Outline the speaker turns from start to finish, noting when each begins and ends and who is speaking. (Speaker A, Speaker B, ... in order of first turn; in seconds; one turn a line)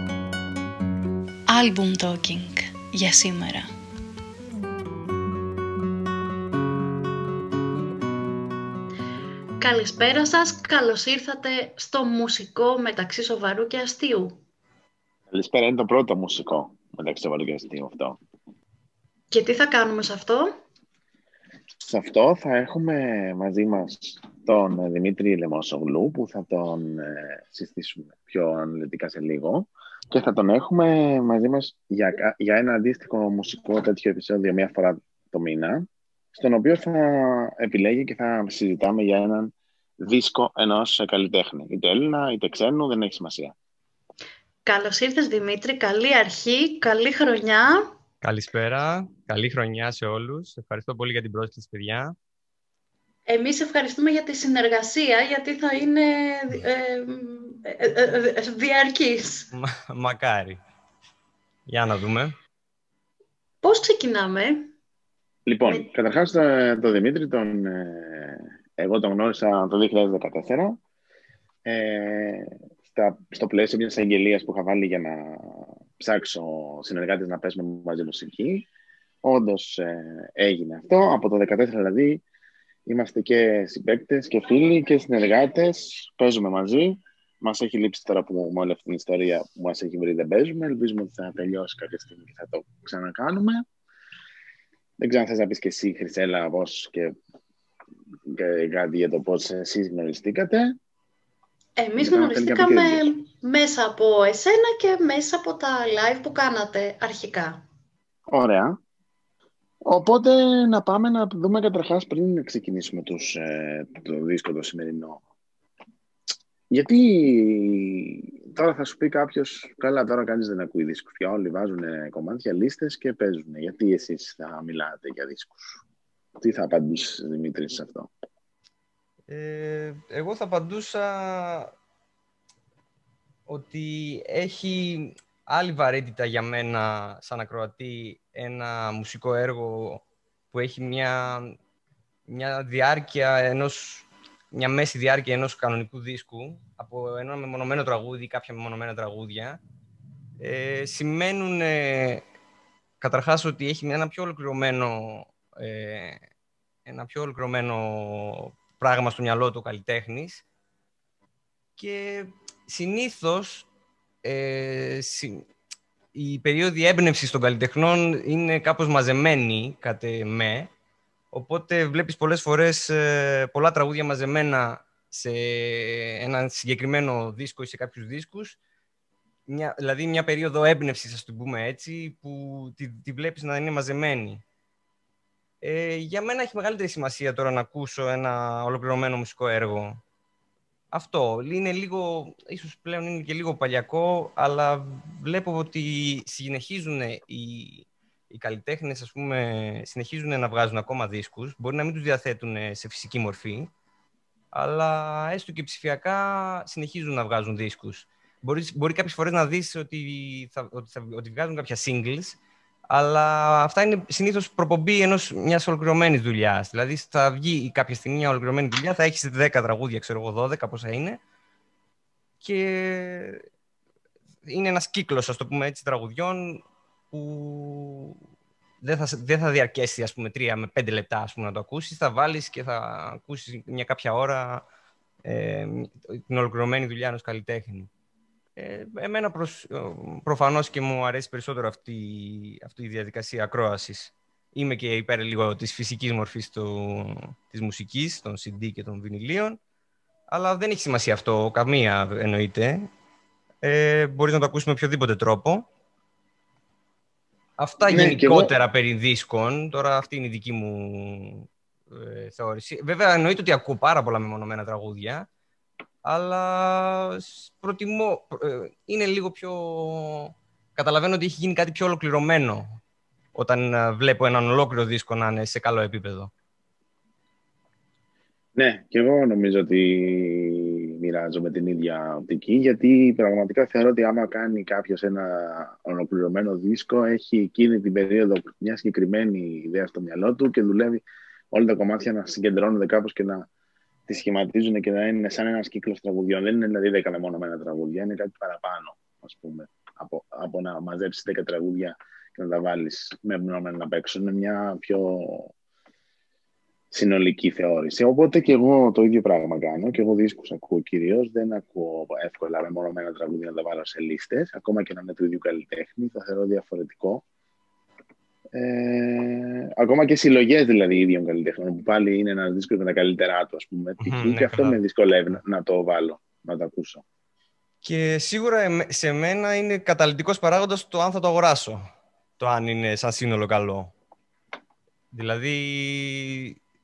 Speaker A: 1.5-3.7
Speaker A: 9.6-14.4
Speaker B: 15.3-18.2
Speaker A: 19.3-20.5
Speaker B: 21.8-43.5
Speaker A: 44.6-47.8
Speaker C: 48.2-52.1
Speaker A: 53.2-59.5
Speaker C: 59.5-60.6
Speaker C: 61.7-62.3
Speaker A: 63.6-64.7
Speaker B: 65.5-70.8
Speaker B: 71.6-78.7
Speaker B: 79.2-82.2
Speaker B: 82.8-93.6
Speaker B: 95.0-97.1
Speaker B: 98.3-100.7
Speaker A: 101.8-107.6
Speaker B: 102.0-103.1
Speaker B: 108.3-108.8
Speaker B: 109.8-115.2
Speaker B: 116.7-125.8
Speaker B: 126.4-128.1
Speaker C: 129.3-131.7
Speaker C: 133.5-141.6
Speaker C: 142.3-149.6
Speaker C: 150.4-152.2
Speaker C: 153.0-156.2
Speaker C: 156.8-160.4
Speaker C: 161.8-163.7
Speaker C: 164.2-165.4
Speaker C: 166.1-170.7
Speaker C: 171.3-178.6
Speaker C: 179.5-184.4
Speaker C: 185.6-190.0
Speaker C: 190.9-203.7
Speaker C: 204.5-212.4
Speaker C: 212.9-221.2
Speaker C: 222.4-223.4
Speaker C: 224.4-228.2
Speaker C: 228.8-234.6
Speaker C: 235.2-237.9
Speaker C: 238.6-249.6
Speaker C: 250.3-252.9
Speaker C: 253.6-255.6
Speaker C: 257.6-265.3
Speaker B: 257.9-258.5
Speaker C: 266.0-272.8
Speaker C: 273.3-276.3
Speaker B: 278.5-293.5
Speaker B: 294.1-305.5
Speaker B: 306.9-317.2
Speaker B: 318.5-327.0
Speaker C: 324.0-324.8
Speaker C: 327.8-331.9
Speaker C: 332.4-333.9
Speaker C: 335.1-336.6